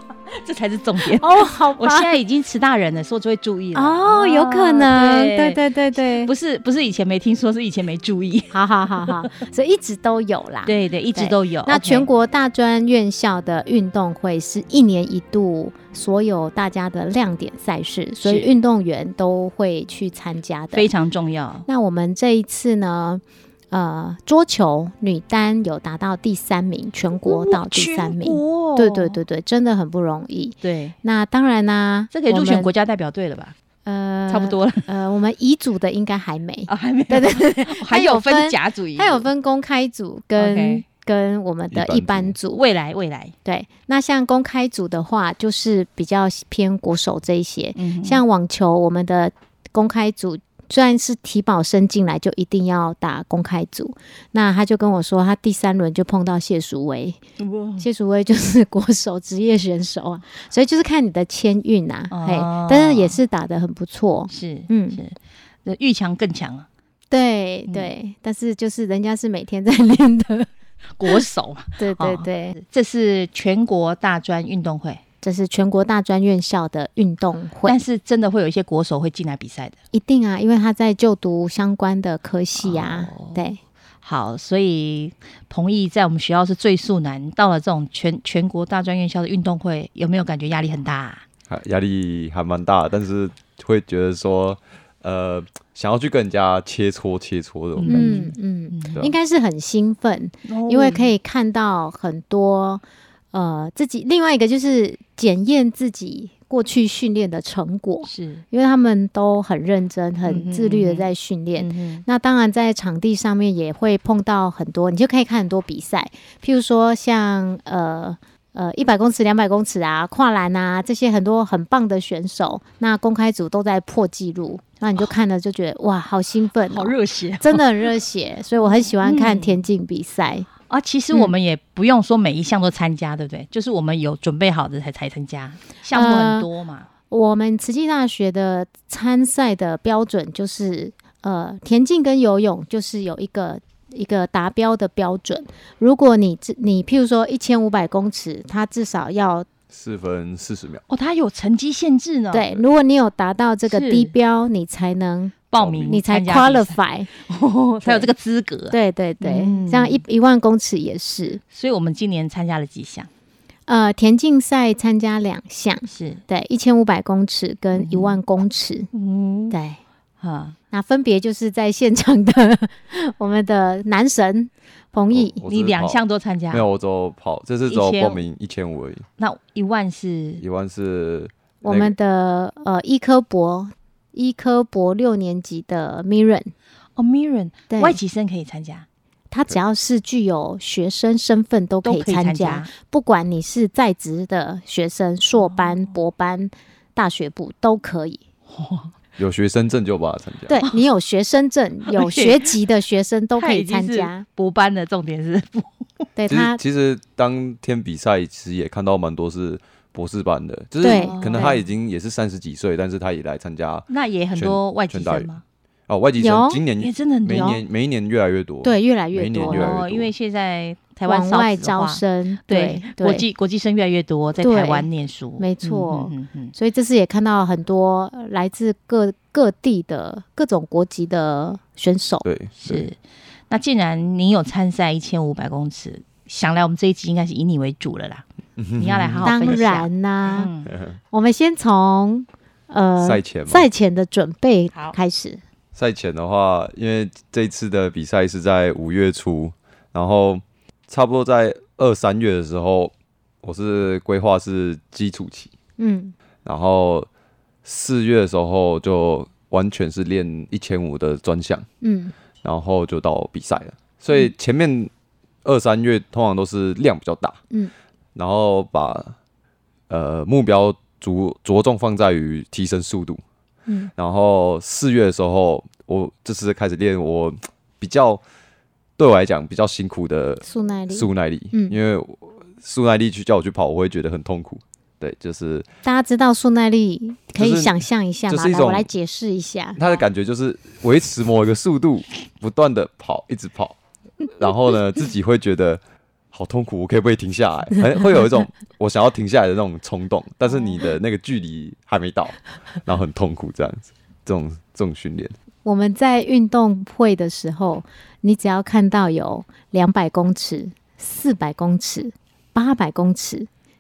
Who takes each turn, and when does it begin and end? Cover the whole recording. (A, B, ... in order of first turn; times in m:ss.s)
0:00.3-0:08.5 A
0:01.1-0:02.2 B
0:03.7-0:06.3 B
0:08.5-0:20.9 B
0:09.1-0:09.4 A
0:10.7-0:12.1 A
0:20.7-0:21.7 A
0:21.7-0:32.7 B
0:27.3-0:29.2 A
0:30.6-0:31.0 A
0:32.1-0:33.6 A
0:33.8-0:42.6 B
0:34.3-0:34.9 A
0:36.7-0:39.3 A
0:40.4-0:40.8 A
0:41.7-0:42.4 C
0:42.5-0:43.3 A
0:43.4-0:57.2 B
0:47.8-0:48.2 A
0:57.4-0:57.9 A
0:57.8-1:05.0 B
1:02.1-1:03.2 A
1:04.3-1:06.7 A
1:07.1-1:10.5 B
1:11.0-1:15.0 A
1:11.8-1:12.6 B
1:15.2-1:17.8 B
1:17.6-1:19.8 A
1:19.9-1:23.6 B
1:22.6-1:23.4 A
1:24.0-1:31.2 A
1:31.5-1:38.2 C
1:37.8-1:39.0 A
1:37.9-2:10.5 B
1:40.4-1:41.1 A
1:48.1-1:48.4 A
1:50.3-1:52.0 A
2:06.7-2:07.6 A
2:09.0-2:09.6 A
2:10.7-2:16.9 A
2:15.9-2:16.5 B
2:17.1-2:29.5 B
2:29.7-2:30.8 C
2:30.9-2:32.6 A
2:32.3-2:35.4 B
2:33.7-2:34.1 A
2:35.5-2:40.0 A
2:35.6-2:36.0 C
2:35.9-2:37.1 B
2:38.7-2:41.4 B
2:41.5-2:43.1 A
2:43.7-2:48.9 B
2:45.9-2:46.2 A
2:47.8-2:48.2 A
2:48.9-2:49.6 A
2:49.5-2:49.8 B
2:50.2-2:50.6 A
2:50.7-2:55.4 B
2:55.1-2:59.1 C
2:55.4-2:56.7 A
2:57.7-2:58.2 A
2:59.2-3:00.4 A
3:00.4-3:02.0 C
3:01.6-3:06.5 B
3:07.0-3:08.9 A
3:07.7-3:08.0 B
3:09.3-3:18.2 B
3:11.8-3:12.7 A
3:15.4-3:15.7 A
3:18.5-3:19.0 A
3:19.2-3:20.6 C
3:20.5-3:24.3 B
3:21.9-3:22.5 A
3:23.4-3:25.9 A
3:26.2-3:26.6 B
3:26.3-3:35.3 C
3:30.8-3:31.5 B
3:30.8-3:31.6 A
3:33.9-3:35.4 A
3:35.9-3:40.1 C
3:36.2-3:36.6 B
3:36.8-3:37.6 A
3:37.3-3:37.6 B
3:38.6-3:39.7 B
3:39.5-3:46.5 A
3:41.1-3:43.2 B
3:44.4-3:52.3 B
3:52.2-3:52.8 C
3:52.6-3:53.0 A
3:53.5-3:58.2 A
3:58.6-3:59.6 C
3:58.8-4:00.7 A
3:59.2-4:00.5 B
4:00.6-4:01.0 C
4:01.1-4:05.4 B
4:03.0-4:03.7 C
4:05.7-4:15.5 C
4:15.8-4:16.1 B
4:16.4-4:17.1 C
4:17.6-4:21.6 C
4:21.8-4:22.1 B
4:22.4-4:24.9 C
4:25.4-4:27.4 C
4:28.1-4:29.2 C
4:29.9-4:33.2 C
4:34.0-4:38.2 C
4:39.0-4:45.7 C
4:40.5-4:41.8 B
4:45.8-4:49.8 B
4:47.4-4:47.7 C
4:48.3-4:48.9 C
4:49.8-4:53.8 C
4:54.3-4:55.8 C
4:56.3-5:05.3 C
5:05.6-5:13.5 B